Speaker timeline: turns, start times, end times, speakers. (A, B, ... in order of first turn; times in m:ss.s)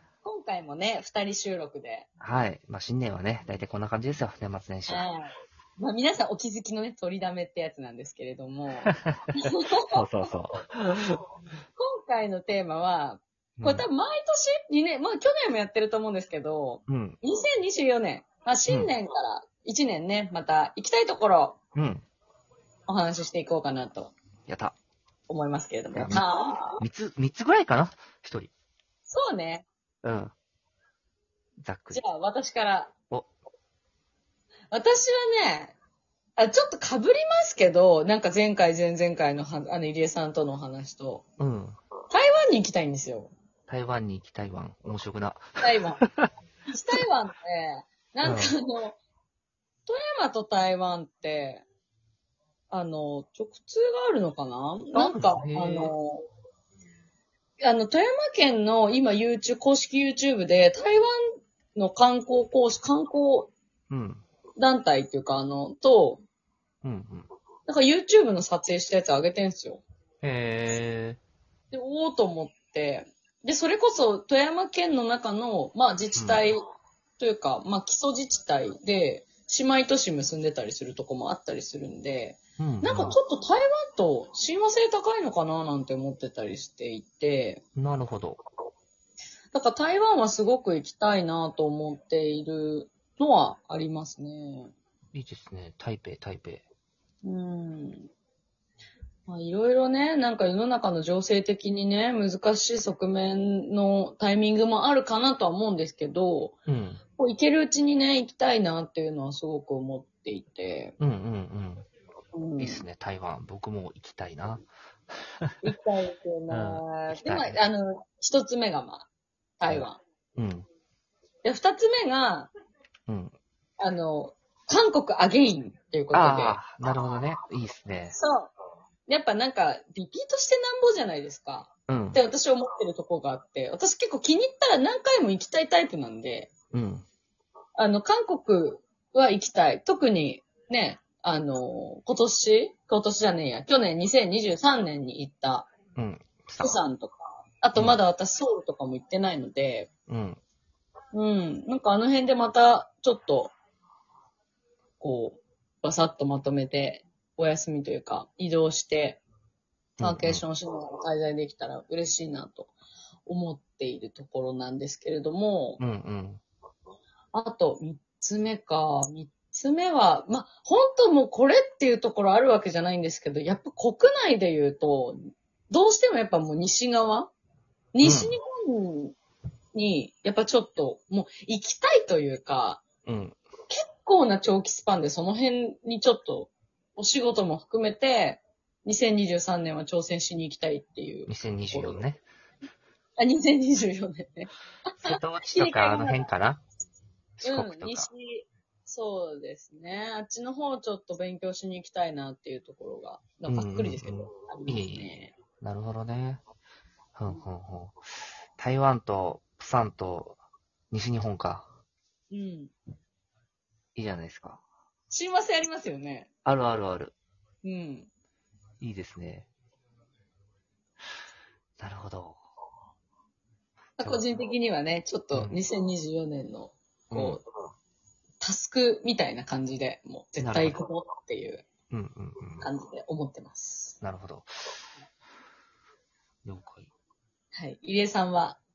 0:00.2-0:02.1 A
0:02.2-0:05.0 B
0:04.9-0:10.3 A
0:09.0-0:11.2 B
0:11.8-0:21.6 A
0:13.6-0:13.8 B
0:16.9-0:17.2 B
0:21.7-0:22.0 B
0:22.9-0:24.1 A
0:24.5-0:24.8 B
0:25.3-0:26.8 A
0:25.9-0:28.5 B
0:29.1-0:29.6 A
0:30.0-0:30.3 B
0:31.6-0:32.0 B
0:31.9-0:32.9 A
0:34.7-0:35.8 A
0:36.4-0:41.2 A
0:41.4-0:41.8 B
0:42.1-0:43.3 A
0:43.7-0:46.3 B
0:45.6-0:46.0 A
0:46.7-0:49.0 A
0:48.2-0:48.5 B
0:49.9-0:51.6 A
0:52.7-0:56.2 A
0:54.9-0:55.9 B
0:57.6-1:03.5 A
1:03.9-1:04.2 B
1:04.6-1:06.2 A
1:06.8-1:07.3 B
1:07.7-1:09.8 A
1:10.2-1:11.2 B
1:11.7-1:16.6 A
1:16.1-1:16.4 B
1:17.2-1:27.6 A
1:22.6-1:23.2 B
1:27.8-1:28.4 B
1:29.5-1:34.7 A
1:35.1-1:36.6 B
1:37.2-1:38.1 A
1:39.3-1:46.5 A
1:46.7-1:47.0 B
1:47.2-1:50.9 A
1:51.0-1:51.8 B
1:52.3-1:52.8 A
1:52.6-1:54.6 B
1:55.6-1:59.1 A
1:56.5-1:57.6 B
1:59.6-2:00.0 A
1:59.6-2:00.7 B
2:01.4-2:02.5 A
2:03.1-2:03.3 B
2:03.8-2:06.8 A
2:06.1-2:08.2 B
2:08.1-2:08.5 A
2:09.1-2:16.5 A
2:11.9-2:12.2 B
2:16.7-2:17.0 B
2:17.8-2:25.7 A
2:26.0-2:26.8 B
2:26.6-2:29.9 A
2:30.1-2:30.4 B
2:31.1-2:33.5 A
2:35.0-2:39.2 A
2:40.0-2:40.4 B
2:40.0-2:42.7 A
2:43.2-2:45.8 A
2:45.8-2:46.4 B
2:47.3-2:57.3 A
2:57.9-2:59.1 A
2:58.0-2:58.4 B
2:59.7-3:02.8 A
3:03.0-3:03.4 B
3:03.7-3:12.0 A
3:11.3-3:12.2 B
3:13.2-3:16.3 A
3:15.0-3:16.6 B
3:17.4-3:18.1 B
3:17.4-3:25.3 A
3:23.5-3:25.1 B
3:25.6-3:26.4 B
3:27.2-3:28.0 B
3:28.6-3:30.4 B
3:30.9-3:31.7 B
3:32.3-3:32.7 A
3:34.0-3:34.6 B
3:35.1-3:36.3 A
3:36.4-3:37.2 B
3:37.6-3:38.1 A
3:38.8-3:39.5 B
3:41.8-3:42.4 B
3:44.0-3:47.4 A
3:45.3-3:45.6 B
3:47.1-3:47.4 B
3:48.4-3:51.6 A
3:50.4-3:50.8 B
3:51.9-3:52.7 B
3:52.6-3:54.0 A
3:54.0-3:54.7 B
3:56.4-3:56.9 B
3:57.5-3:58.6 A